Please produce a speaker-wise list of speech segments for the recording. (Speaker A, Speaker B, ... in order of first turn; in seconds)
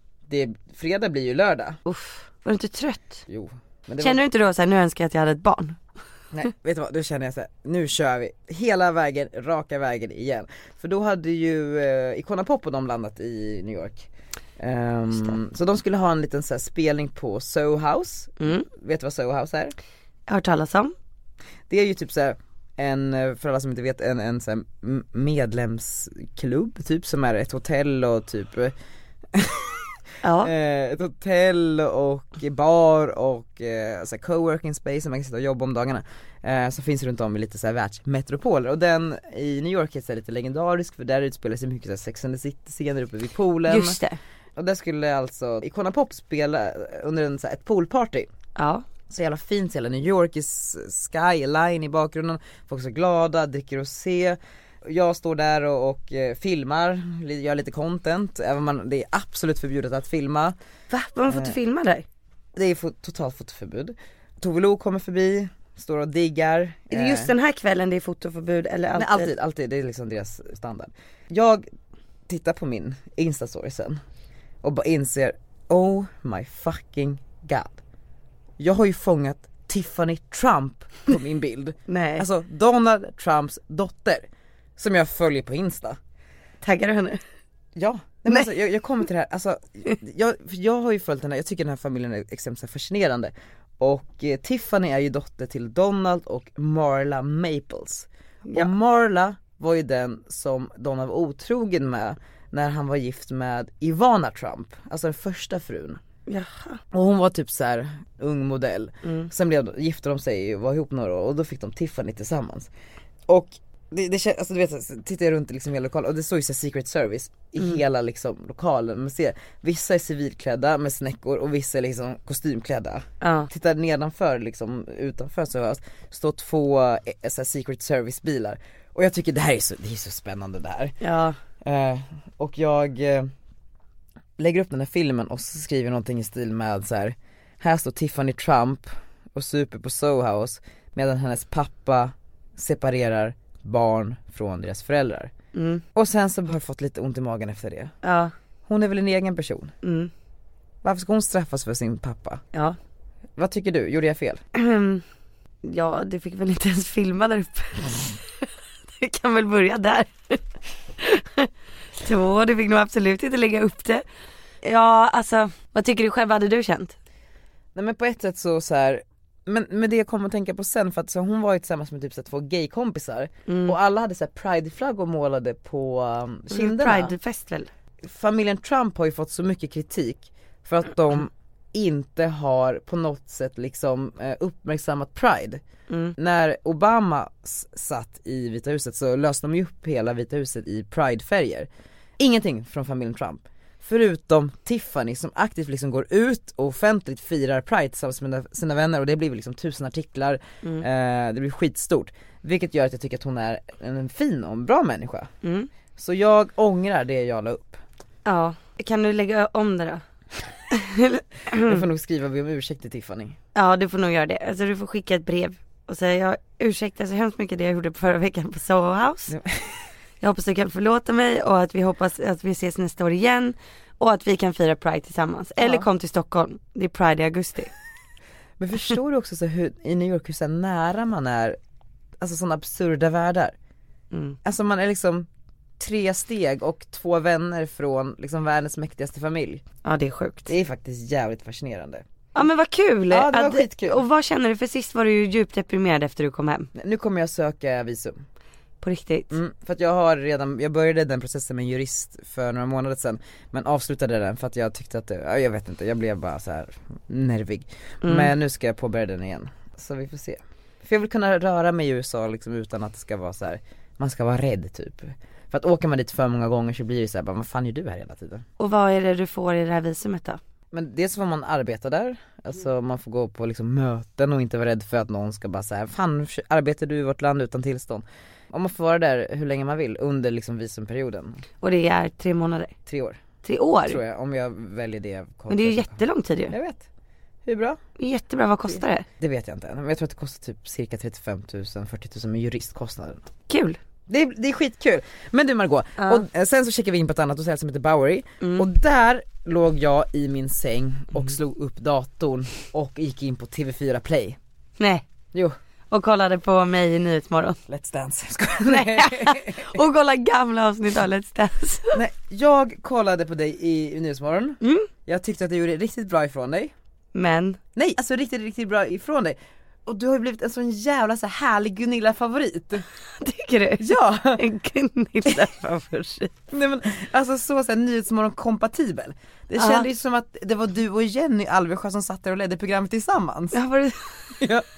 Speaker A: 0.3-1.8, 3.3-4.2, 6.3-14.1, 14.6-19.7, 21.7-28.7, 29.3-44.0, 44.6-48.3, 49.1-60.6, 61.3-61.6, 62.5-67.3, 68.9-71.7, 72.3-74.0, 74.6-77.8, 78.6-86.0, 87.8-106.0, 106.9-112.7, 113.3-131.0, 131.6-133.3, 134.4-145.3, 145.9-147.9, 148.7-149.7, 150.8-152.4, 153.4-154.4, 167.7-177.1, 178.0-185.6, 186.2-191.7, 192.2-205.3, 206.0-207.8, 211.7-213.4, 219.3-219.6, 225.6-225.9, 228.6-231.6, 232.2-233.6, 234.4-235.3, 235.8-239.6, 240.5-242.1, 243.1-244.0, 246.7-248.2, 249.3-268.4, 270.7-281.4, 282.9-283.2, 283.8-286.9, 287.4-287.8, 289.2-293.3, 294.1-304.4, 307.7-309.8, 311.9-316.7, 317.8-322.9, 323.8-324.4, 326.5-333.6, 334.4-334.6
Speaker B: 1.9-3.2, 4.0-5.8, 18.4-18.6, 20.3-20.9, 30.2-30.5, 43.7-44.2, 48.6-48.8, 60.9-62.0, 66.9-69.3, 81.9-82.2, 86.6-87.2, 106.3-106.8, 123.2-123.5, 131.0-131.4, 145.5-145.8, 148.0-148.3, 149.8-150.1, 154.6-155.0, 155.6-160.4, 161.0-164.0, 164.6-166.9, 173.5-173.7, 176.5-177.7, 185.9-186.1, 205.4-205.7, 208.2-210.0, 210.7-211.8, 213.6-219.3, 220.2-227.7, 234.1-234.4, 239.8-240.5, 242.3-246.7, 248.8-249.3, 258.0-258.3, 268.6-270.4, 281.6-282.7, 283.4-284.0, 285.5-286.6, 288.0-289.1, 293.5-293.8, 296.0-296.2, 298.4-298.7, 304.8-305.1, 305.9-307.6, 308.6-312.0, 314.6-314.9, 317.1-317.6, 323.2-326.3, 329.6-329.9, 333.5-334.4